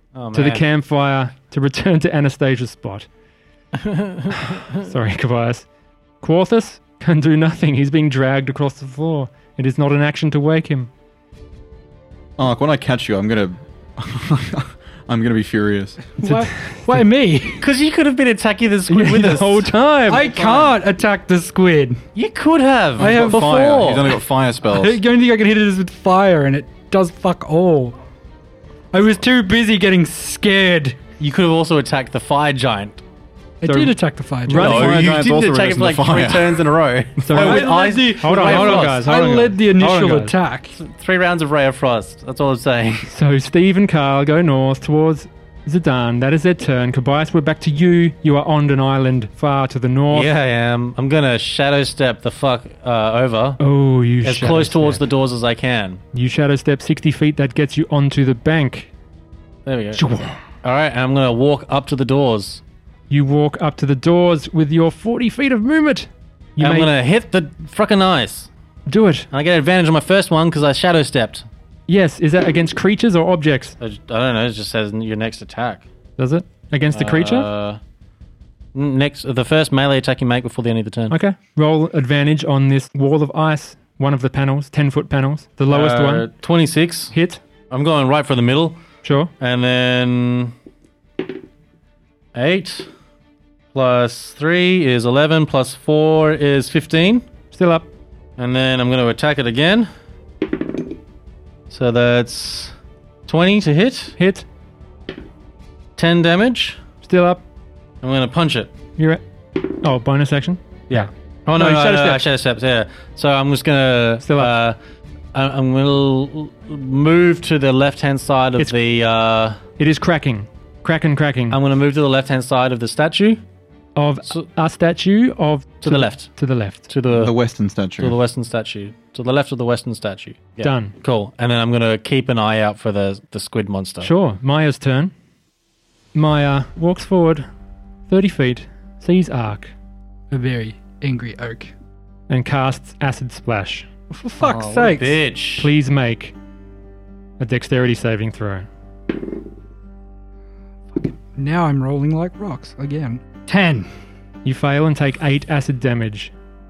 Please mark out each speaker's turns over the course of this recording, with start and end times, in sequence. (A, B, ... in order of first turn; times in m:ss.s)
0:00.2-0:00.6 A
0:00.3-0:03.1 B
0:03.8-0:04.8 A
0:04.5-0:05.7 B
0:06.2-0:10.9 B
0:12.4-0:16.1 C
0:16.2-0:17.7 D
0:16.2-0:17.0 B
0:17.6-0:20.7 A
0:18.9-0:20.3 B
0:20.1-0:22.0 D
0:22.2-0:24.2 A
0:23.0-0:25.0 C
0:23.0-0:24.0 D
0:24.6-0:28.0 D
0:28.9-0:31.0 D
0:31.2-0:33.0 A
0:33.6-0:35.0 D
0:33.6-0:35.2 B
0:34.5-0:39.4 A
0:34.6-0:36.7 C
0:37.2-0:40.4 B
0:37.3-0:40.8 D
0:40.8-0:43.1 A
0:43.1-0:50.3 B
0:50.1-0:53.6 A
0:53.6-0:55.0 B
0:54.2-0:56.0 A
0:56.1-0:58.9 B
0:59.7-1:00.0 A
1:00.0-1:00.4 B
1:00.6-1:02.6 A
1:03.1-1:06.9 B
1:06.6-1:08.5 A
1:08.9-1:09.3 B
1:09.3-1:11.4 A
1:11.9-1:13.8 B
1:13.8-1:15.9 A
1:16.2-1:17.5 B
1:16.9-1:17.8 A
1:18.7-1:21.2 A
1:21.1-1:26.3 B
1:25.7-1:27.1 A
1:27.1-1:27.4 B
1:27.7-1:28.8 A
1:29.0-1:29.3 B
1:29.4-1:30.5 A
1:32.3-1:32.9 A
1:33.7-1:37.2 A
1:37.5-1:37.9 B
1:38.4-1:39.9 A
1:41.7-1:42.8 A
1:43.3-1:44.2 A
1:44.2-1:44.5 B
1:46.0-1:46.8 A
1:47.0-1:47.4 B
1:48.0-1:48.7 A
1:49.0-1:52.2 B
1:50.9-1:54.8 A
1:54.2-1:54.5 B
1:55.3-1:59.6 A
1:59.8-2:01.6 B
2:01.5-2:03.4 A
2:04.0-2:06.9 B
2:05.8-2:06.3 A
2:06.9-2:07.4 A
2:07.1-2:08.2 C
2:08.0-2:14.1 A
2:10.6-2:10.9 B
2:14.0-2:15.1 B
2:16.1-2:17.5 B
2:18.1-2:19.7 B
2:20.3-2:21.7 D
2:22.3-2:23.9 B
2:24.1-2:25.2 D
2:24.4-2:25.7 A
2:25.6-2:26.4 B
2:27.4-2:28.7 B
2:30.9-2:33.9 D
2:34.4-2:36.3 B